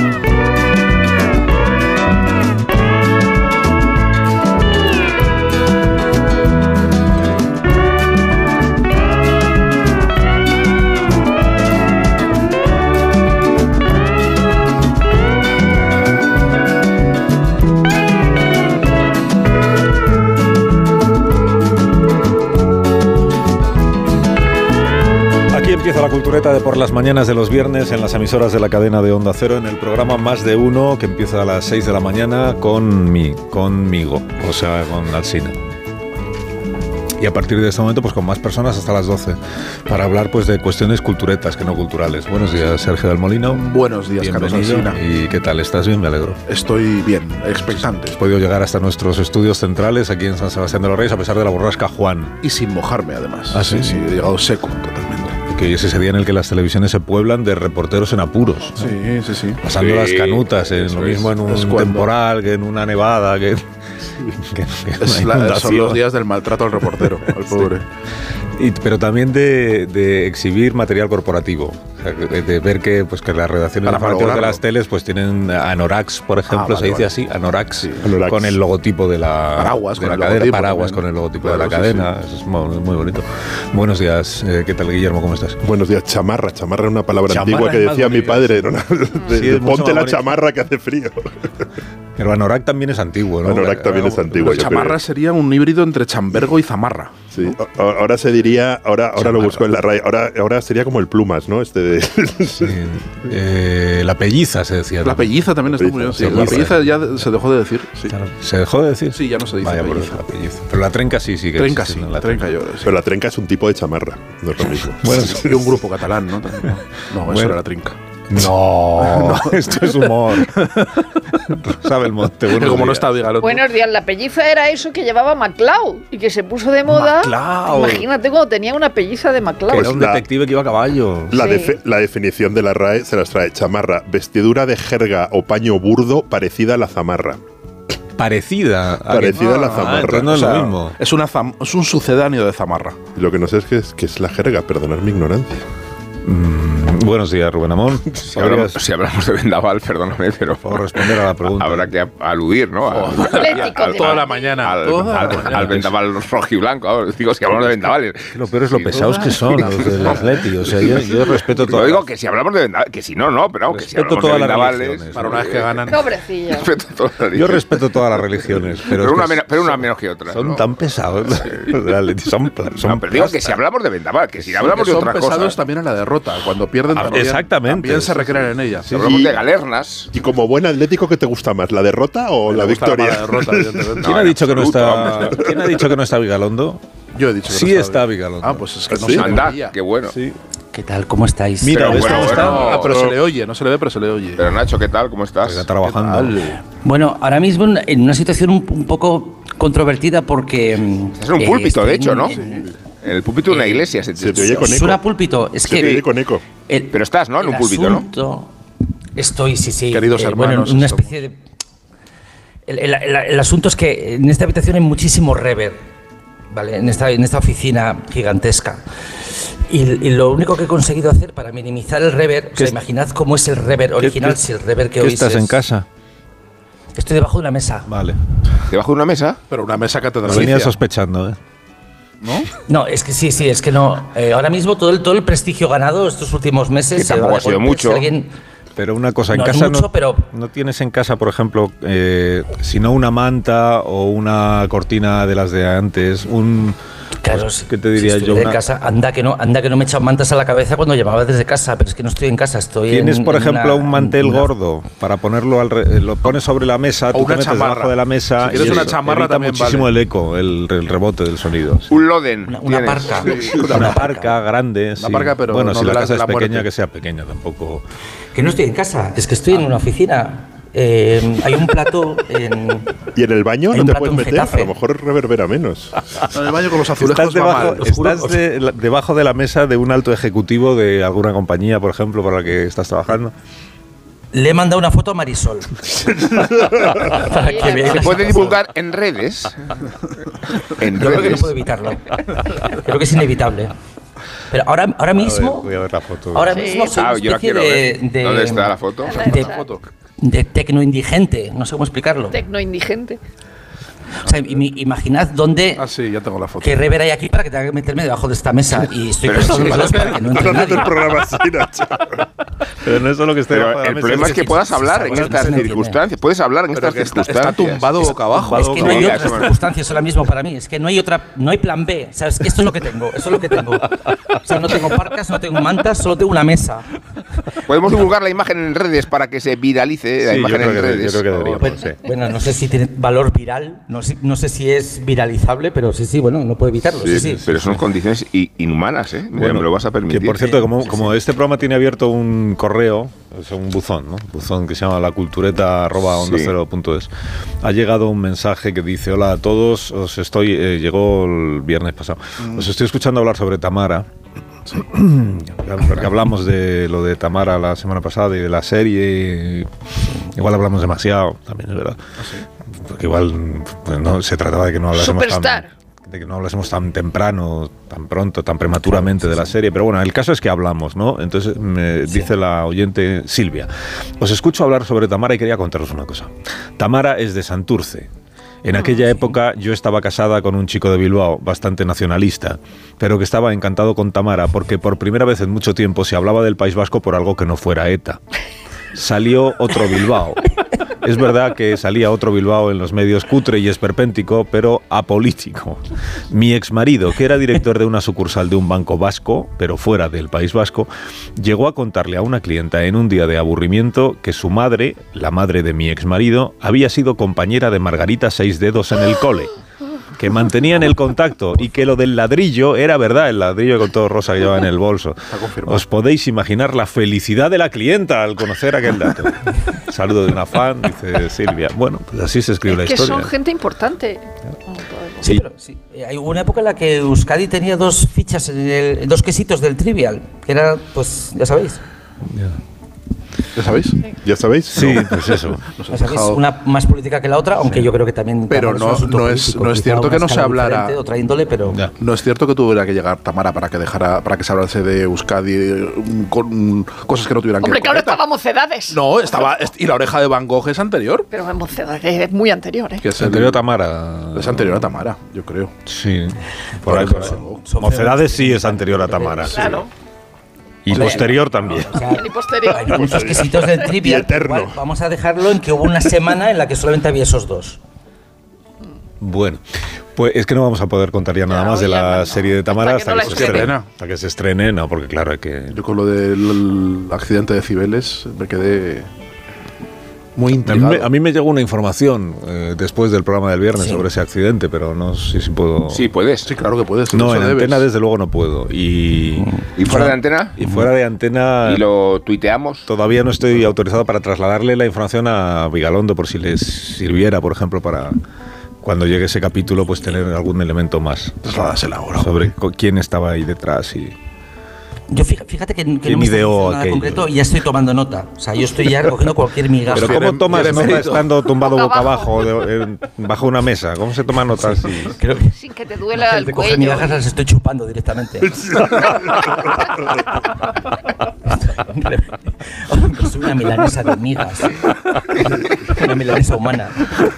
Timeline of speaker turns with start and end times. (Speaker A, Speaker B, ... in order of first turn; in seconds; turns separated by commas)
Speaker A: 25.5-35.5, Speaker A: 37.2-46.4, Speaker B: 43.5-45.0, Speaker B: 46.5-48.2, Speaker A: 47.7-52.4, Speaker B: 52.4-55.4, Speaker A: 53.5-54.2, Speaker A: 55.5-59.0, Speaker B: 58.8-59.6, Speaker A: 59.6-63.6, Speaker C: 59.7-61.3, Speaker B: 61.4-62.1, Speaker A: 64.2-66.0, Speaker B: 65.0-67.8, Speaker A: 67.2-67.7, Speaker A: 68.5-85.6, Speaker B: 73.8-74.6, Speaker B: 76.5-77.1, Speaker B: 77.8-78.1, Speaker D: 78.0-78.6, Speaker B: 79.5-82.1, Speaker D: 85.6-91.3, Speaker A: 87.3-88.4, Speaker B: 87.5-88.6, Speaker A: 89.3-90.4, Speaker A: 92.2-94.8, Speaker D: 93.4-95.0, Speaker B: 94.3-97.2, Speaker D: 97.3-102.7, Speaker A: 99.2-99.7, Speaker A: 102.5-105.5, Speaker B: 105.0-108.1, Speaker D: 105.7-106.6, Speaker A: 106.1-107.0, Speaker A: 108.1-112.5, Speaker B: 109.1-110.2, Speaker B: 111.5-112.9, Speaker D: 112.8-115.3, Speaker A: 115.0-115.7, Speaker B: 115.1-118.0, Speaker A: 117.2-117.6, Speaker A: 118.3-120.8, Speaker B: 119.1-119.9, Speaker B: 120.5-121.0, Speaker A: 121.5-123.3, Speaker B: 122.5-123.7, Speaker E: 123.4-130.0, Speaker A: 126.9-128.1, Speaker A: 129.7-131.4, Speaker D: 129.7-130.2, Speaker D: 131.3-137.4, Speaker E: 131.3-131.8, Speaker A: 138.2-141.0, Speaker D: 139.1-140.6, Speaker B: 139.3-143.0, Speaker D: 143.1-145.7, Speaker A: 146.2-148.8, Speaker C: 148.2-150.6, Speaker A: 150.6-151.9, Speaker C: 151.4-154.0, Speaker B: 152.9-155.9, Speaker E: 153.2-154.6, Speaker C: 154.6-160.1, Speaker A: 155.1-155.9, Speaker A: 158.3-162.1, Speaker B: 158.9-160.4, Speaker C: 161.6-165.8, Speaker A: 163.7-165.4, Speaker B: 165.1-166.0, Speaker E: 165.9-166.7, Speaker C: 166.5-167.8, Speaker A: 167.3-173.6, Speaker C: 168.8-170.6, Speaker C: 171.4-171.7, Speaker C: 172.7-175.6, Speaker B: 174.5-179.1, Speaker A: 176.9-179.4, Speaker C: 178.9-180.1, Speaker D: 180.1-184.0, Speaker B: 182.4-184.2, Speaker A: 184.0-186.8, Speaker C: 184.0-185.4, Speaker B: 187.1-189.8, Speaker A: 187.5-189.2, Speaker D: 188.9-189.3, Speaker C: 189.2-190.1, Speaker F: 190.7-192.4, Speaker A: 191.6-192.9, Speaker C: 191.7-193.1, Speaker B: 192.1-194.5, Speaker C: 194.4-195.7, Speaker A: 195.4-196.5, Speaker B: 195.8-196.6, Speaker F: 196.8-202.7, Speaker C: 201.2-202.3, Speaker B: 202.3-202.6, Speaker C: 203.0-204.7, Speaker F: 203.5-206.1, Speaker D: 204.2-205.0, Speaker D: 205.7-206.4, Speaker F: 206.7-208.5, Speaker C: 206.9-208.1, Speaker F: 209.2-211.4, Speaker B: 209.9-211.2, Speaker F: 212.7-215.8, Speaker F: 216.5-218.8, Speaker F: 219.7-225.6, Speaker A: 224.0-224.4, Speaker A: 225.0-225.8, Speaker F: 226.9-227.9, Speaker A: 227.9-228.2, Speaker C: 228.7-229.4, Speaker B: 229.5-230.8, Speaker A: 230.2-231.4, Speaker B: 232.2-232.5, Speaker F: 232.6-238.3, Speaker C: 236.9-238.1, Speaker A: 238.8-248.6, Speaker F: 239.3-240.3, Speaker F: 247.2-254.5, Speaker A: 252.9-261.9, Speaker B: 257.1-259.9, Speaker C: 261.9-263.4, Speaker F: 262.4-264.4, Speaker B: 263.2-263.9, Speaker A: 263.6-267.8, Speaker B: 265.0-266.7, Speaker F: 268.3-272.9, Speaker D: 273.1-276.0, Speaker F: 273.7-274.7, Speaker B: 276.3-278.3, Speaker A: 276.9-283.3, Speaker F: 284.3-285.9, Speaker F: 286.9-288.6, Speaker E: 287.4-288.2, Speaker C: 288.0-289.5, Speaker C: 290.8-291.5, Speaker F: 290.8-293.7, Speaker F: 294.5-295.7, Speaker A: 295.2-296.6, Speaker F: 296.3-299.5, Speaker E: 296.5-296.9, Speaker C: 296.9-299.2, Speaker E: 299.1-299.6, Speaker B: 299.1-299.8, Speaker F: 300.2-302.4, Speaker E: 302.3-303.2, Speaker F: 304.2-305.8, Speaker B: 305.8-306.8, Speaker F: 306.6-311.1, Speaker C: 309.3-310.1, Speaker B: 309.4-310.3, Speaker D: 310.3-312.2, Speaker A: 312.8-315.2, Speaker C: 313.5-318.1, Speaker F: 314.1-316.0, Speaker B: 316.7-319.0, Speaker A: 318.3-319.2, Speaker F: 318.3-326.9, Speaker C: 318.8-319.6, Speaker C: 327.7-331.6, Speaker A: 330.2-332.0, Speaker F: 331.6-337.5, Speaker C: 337.0-340.5, Speaker A: 339.3-347.1, Speaker F: 340.4-340.9, Speaker C: 346.1-346.5, Speaker A: 347.6-354.1, Speaker B: 352.4-352.7, Speaker A: 354.8-359.7, Speaker A: 360.2-362.0, Speaker B: 362.2-362.4, Speaker A: 362.7-378.1, Speaker E: 364.9-365.7, Speaker A: 378.6-388.2, Speaker A: 388.9-390.4, Speaker A: 391.0-409.5, Speaker A: 410.1-423.3, Speaker B: 415.3-415.8, Speaker E: 422.6-425.2, Speaker F: 425.2-431.8, Speaker B: 433.6-434.0, Speaker D: 434.2-435.1, Speaker A: 434.7-435.6, Speaker B: 435.8-436.4, Speaker F: 435.9-441.8, Speaker B: 438.5-441.0, Speaker B: 442.0-448.2, Speaker E: 447.6-449.0, Speaker B: 448.9-451.3, Speaker E: 451.3-453.0, Speaker B: 453.0-453.6, Speaker A: 453.2-454.9, Speaker B: 454.3-455.7, Speaker A: 455.9-459.9, Speaker B: 456.8-457.6, Speaker F: 456.9-459.7, Speaker E: 459.5-459.9, Speaker A: 460.8-462.0, Speaker B: 460.9-461.4, Speaker F: 461.8-467.8, Speaker E: 461.8-463.5, Speaker D: 463.2-464.8, Speaker A: 469.2-469.6, Speaker A: 470.1-475.8, Speaker E: 471.5-473.8, Speaker B: 473.2-473.9, Speaker B: 475.7-479.1, Speaker B: 480.4-481.1, Speaker A: 480.6-486.1, Speaker F: 483.8-484.1, Speaker C: 485.9-486.5, Speaker B: 486.4-487.9, Speaker A: 487.1-489.5, Speaker F: 489.4-490.2, Speaker C: 489.8-490.6, Speaker A: 490.6-491.8, Speaker C: 491.6-492.9, Speaker A: 492.9-498.2, Speaker A: 498.8-504.1, Speaker B: 501.4-502.4, Speaker F: 505.1-511.1, Speaker A: 506.0-507.3, Speaker B: 509.9-511.3, Speaker A: 509.9-515.2, Speaker E: 511.6-512.4, Speaker F: 514.6-515.5, Speaker E: 515.5-517.2, Speaker F: 516.1-519.0, Speaker F: 521.6-527.1